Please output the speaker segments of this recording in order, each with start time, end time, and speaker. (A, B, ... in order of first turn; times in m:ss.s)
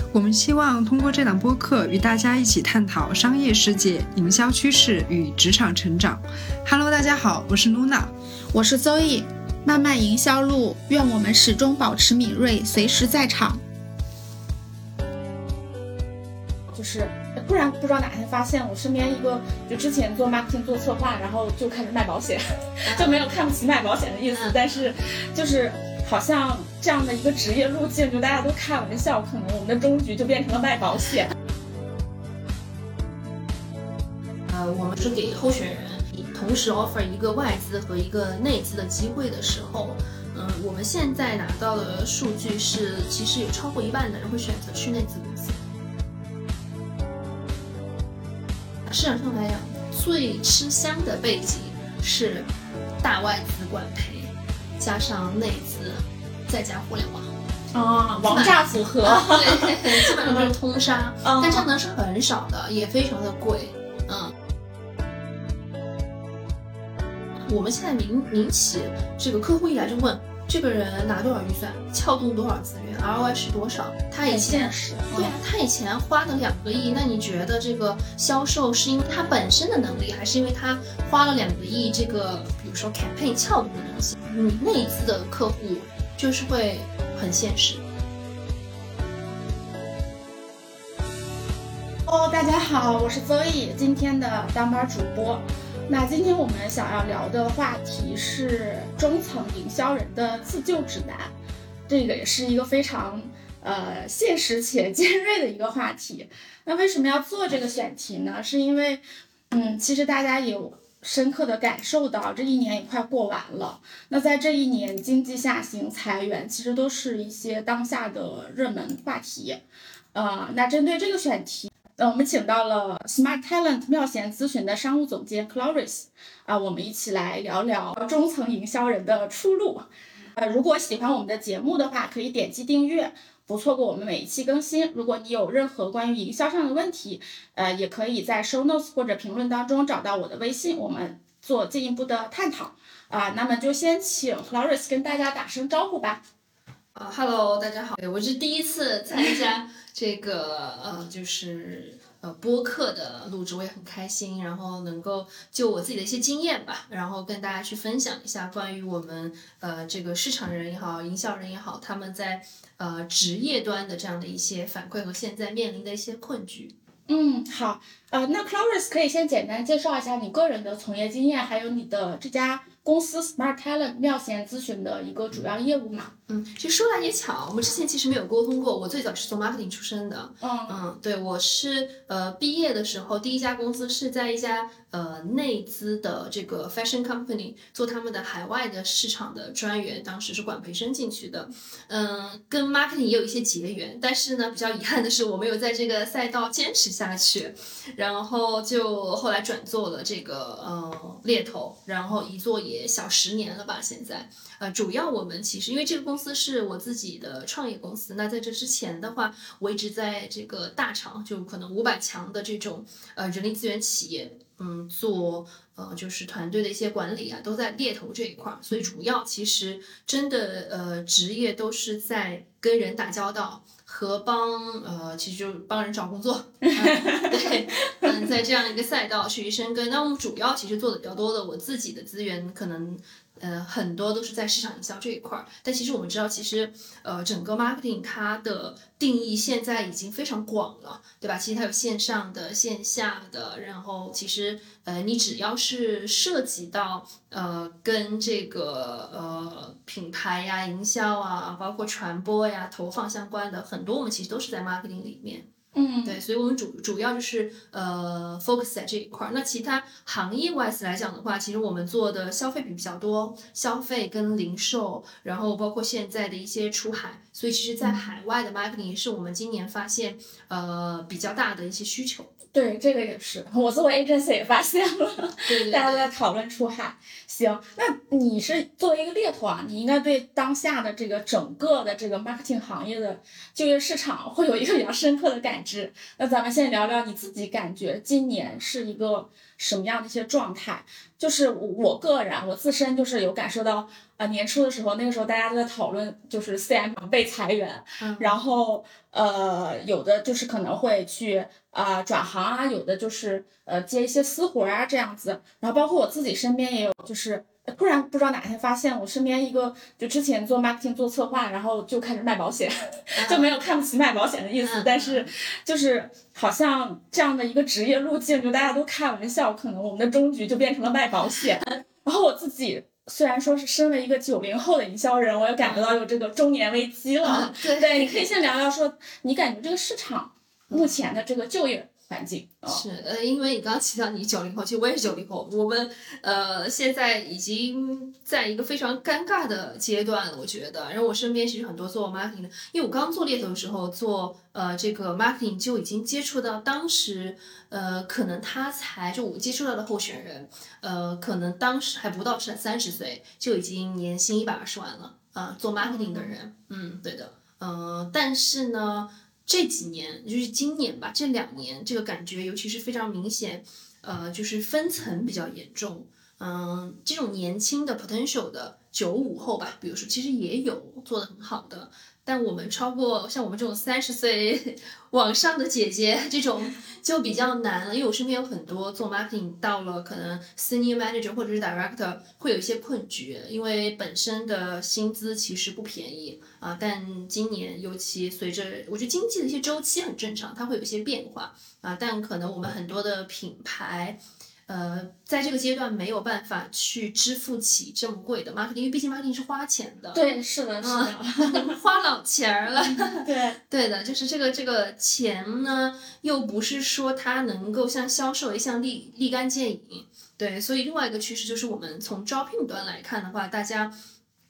0:00.1-0:08.1 A
0:08.5-0:13.6 B
0:16.7-0:31.3 C
0:22.9-0:23.2 D
0:34.5-0:45.6 D
0:48.8-0:52.5 D
0:53.0-0:57.3 D
0:57.7-1:00.5 C
0:58.2-1:04.3 D
1:01.2-1:01.7 C
1:07.4-1:27.8 D
1:14.2-1:15.3 C
1:32.0-1:41.3 C
1:41.9-1:59.6 C
2:00.1-2:26.2 C
2:27.0-2:46.8 D
2:47.1-2:56.1 C
2:56.3-4:15.5 D
3:00.4-3:00.8 C
3:46.7-3:48.0 C
4:15.7-4:16.2 C
4:16.0-4:32.3 D
4:32.5-5:32.8 C
4:35.5-4:36.1 D
4:58.0-4:58.4 D
5:13.2-5:13.5 D
5:14.6-5:15.3 D
5:25.6-5:25.9 D
5:27.2-5:28.3 D
5:30.7-5:30.9 D
5:32.7-6:40.2 D
5:55.8-5:56.3 C
6:40.1-6:41.8 C
6:40.8-6:54.0 D
6:43.1-6:43.6 C